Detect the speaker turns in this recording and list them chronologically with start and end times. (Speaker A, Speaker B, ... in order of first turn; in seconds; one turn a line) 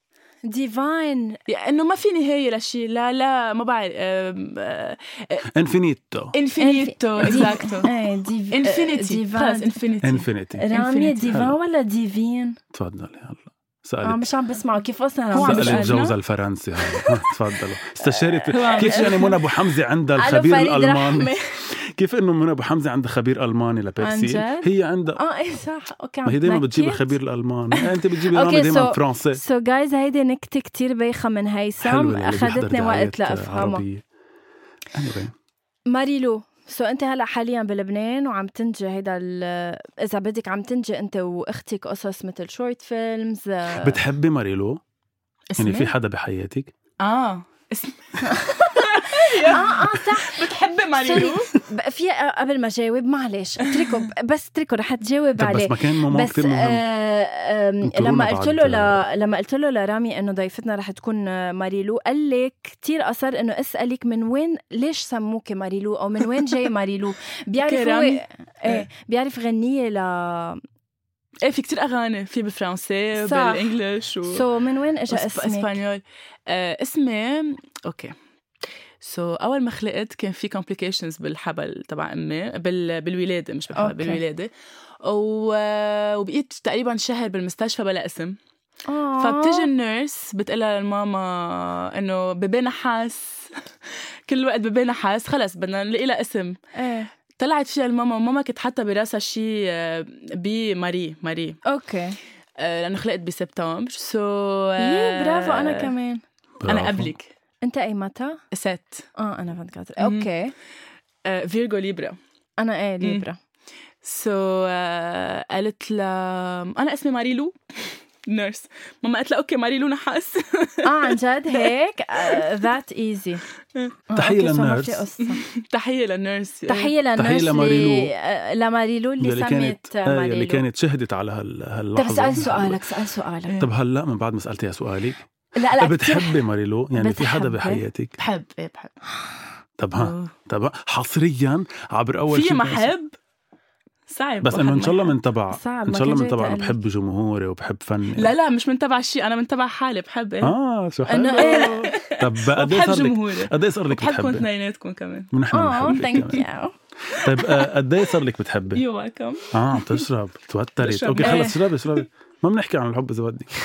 Speaker A: 0.5-1.4
Speaker B: 1.5-5.5
Speaker C: 5.5-6.3
Speaker B: 6.3-7.9
Speaker A: 6.6-9.8
Speaker B: 8.5-11.3
Speaker C: 10.0-10.7
Speaker A: 10.6-12.6
Speaker C: 11.3-11.6
Speaker C: 12.7-14.2
Speaker A: 14.0-15.9
Speaker B: 15.3-16.2
Speaker C: 15.4-25.2
Speaker A: 16.9-17.2
Speaker A: 18.1-19.2
Speaker B: 18.5-19.4
Speaker A: 20.2-21.6
Speaker A: 24.0-27.1
Speaker C: 26.2-29.4
Speaker A: 28.3-33.8
Speaker C: 31.8-34.0
Speaker C: 34.9-35.3
Speaker A: 35.9-44.0
Speaker C: 43.8-44.8
Speaker B: 45.5-45.9
Speaker C: 45.6-46.7
Speaker B: 47.0-51.5
Speaker A: 48.2-70.6
Speaker B: 53.7-54.0
Speaker C: 55.4-56.8
Speaker C: 57.8-59.0
Speaker B: 67.6-68.8
Speaker B: 71.4-74.4
Speaker A: 73.2-73.7
Speaker A: 74.3-75.8
Speaker B: 75.1-78.2
Speaker B: 79.0-84.5
Speaker A: 83.8-84.2
Speaker B: 85.0-88.4
Speaker A: 88.9-89.7
Speaker B: 89.2-96.6
Speaker A: 96.8-97.1
Speaker B: 97.4-101.6
Speaker A: 101.7-102.2
Speaker B: 102.6-105.9
Speaker A: 104.8-106.2
Speaker C: 106.6-107.1
Speaker B: 106.7-107.3
Speaker A: 107.6-108.4
Speaker B: 108.5-109.1
Speaker A: 109.2-110.5
Speaker B: 110.0-110.3
Speaker B: 111.3-112.2
Speaker A: 112.6-113.4
Speaker B: 114.0-122.5
Speaker A: 120.8-123.4
Speaker A: 124.1-125.4
Speaker C: 124.2-125.0
Speaker B: 125.2-126.9
Speaker A: 126.7-130.6
Speaker C: 127.2-128.1
Speaker C: 129.2-132.8
Speaker A: 132.0-133.6
Speaker C: 133.6-135.3
Speaker A: 135.6-137.8
Speaker C: 135.8-138.1
Speaker B: 138.2-138.9
Speaker C: 139.8-142.9
Speaker B: 139.9-140.3
Speaker B: 142.3-143.2
Speaker B: 144.1-145.2
Speaker C: 144.4-148.3
Speaker A: 145.5-146.8
Speaker B: 148.2-150.6
Speaker C: 150.4-154.5
Speaker A: 151.1-151.9
Speaker B: 151.3-155.3
Speaker C: 155.3-156.4
Speaker A: 155.5-156.7
Speaker B: 155.9-156.4
Speaker B: 157.1-157.7
Speaker C: 157.2-158.8
Speaker B: 158.7-160.0
Speaker C: 159.5-163.5
Speaker B: 160.8-162.0
Speaker A: 161.2-161.5